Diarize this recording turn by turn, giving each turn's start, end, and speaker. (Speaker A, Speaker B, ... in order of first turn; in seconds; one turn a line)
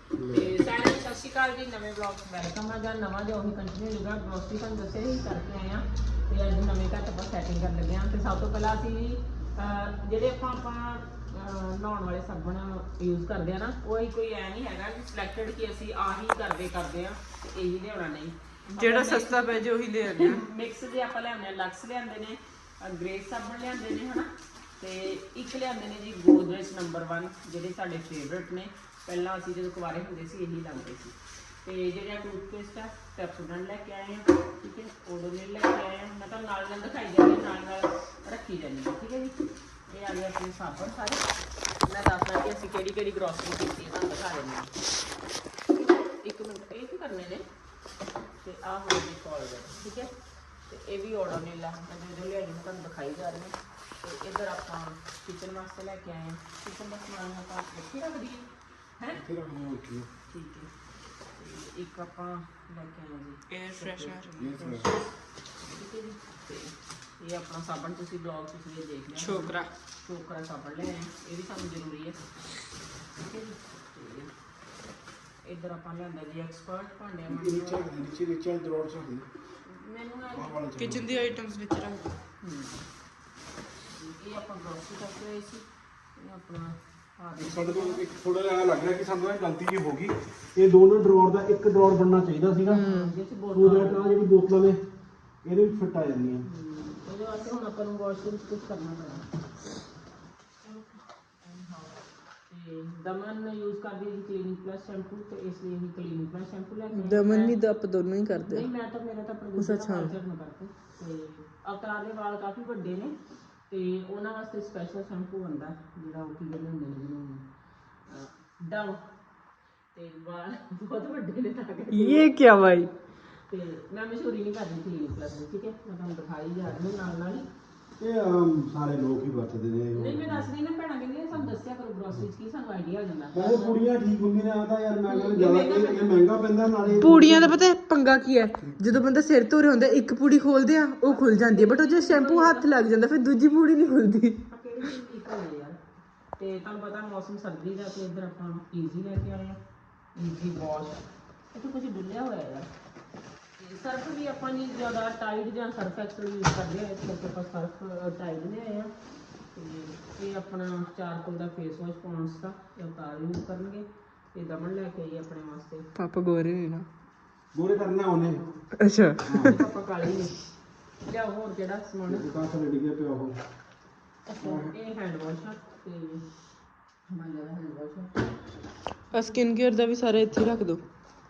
Speaker A: 0.1-0.5
Speaker B: 0.3-41.2
Speaker C: 18.8-20.4
Speaker B: 41.8-44.7
Speaker B: 46.2-47.5
Speaker B: 48.4-50.1
Speaker B: 50.7-58.5
Speaker A: 59.1-60.1
Speaker B: 60.3-60.7
Speaker B: 61.4-64.2
Speaker C: 63.5-64.9
Speaker A: 64.4-65.0
Speaker B: 65.6-72.2
Speaker C: 69.2-69.7
Speaker B: 73.2-74.3
Speaker B: 75.4-77.9
Speaker A: 77.3-79.3
Speaker B: 79.7-80.6
Speaker A: 80.3-81.3
Speaker C: 80.8-82.2
Speaker B: 82.4-82.8
Speaker B: 84.0-85.7
Speaker B: 86.2-88.0
Speaker A: 87.4-92.9
Speaker B: 92.7-94.1
Speaker C: 92.7-93.1
Speaker A: 93.5-94.8
Speaker A: 95.4-96.5
Speaker B: 96.5-99.3
Speaker B: 101.4-101.9
Speaker B: 102.5-107.6
Speaker C: 106.9-108.7
Speaker B: 108.3-113.2
Speaker C: 109.6-110.1
Speaker B: 113.7-117.4
Speaker B: 118.1-119.0
Speaker B: 119.9-122.3
Speaker C: 121.9-122.9
Speaker B: 123.5-127.5
Speaker A: 128.0-130.5
Speaker B: 129.9-133.8
Speaker A: 133.3-137.5
Speaker B: 135.1-136.2
Speaker C: 137.0-144.4
Speaker B: 141.1-142.7
Speaker B: 144.5-145.8
Speaker B: 146.4-149.6
Speaker B: 150.2-152.7
Speaker B: 153.6-158.9
Speaker B: 159.5-165.9
Speaker C: 166.0-166.9
Speaker A: 167.5-168.4
Speaker C: 168.8-169.2
Speaker A: 169.2-169.6
Speaker B: 169.4-170.4
Speaker B: 171.0-172.3
Speaker A: 172.1-173.4
Speaker B: 174.3-176.2
Speaker A: 174.4-174.7
Speaker B: 177.1-178.1
Speaker B: 179.1-179.4
Speaker C: 179.1-180.8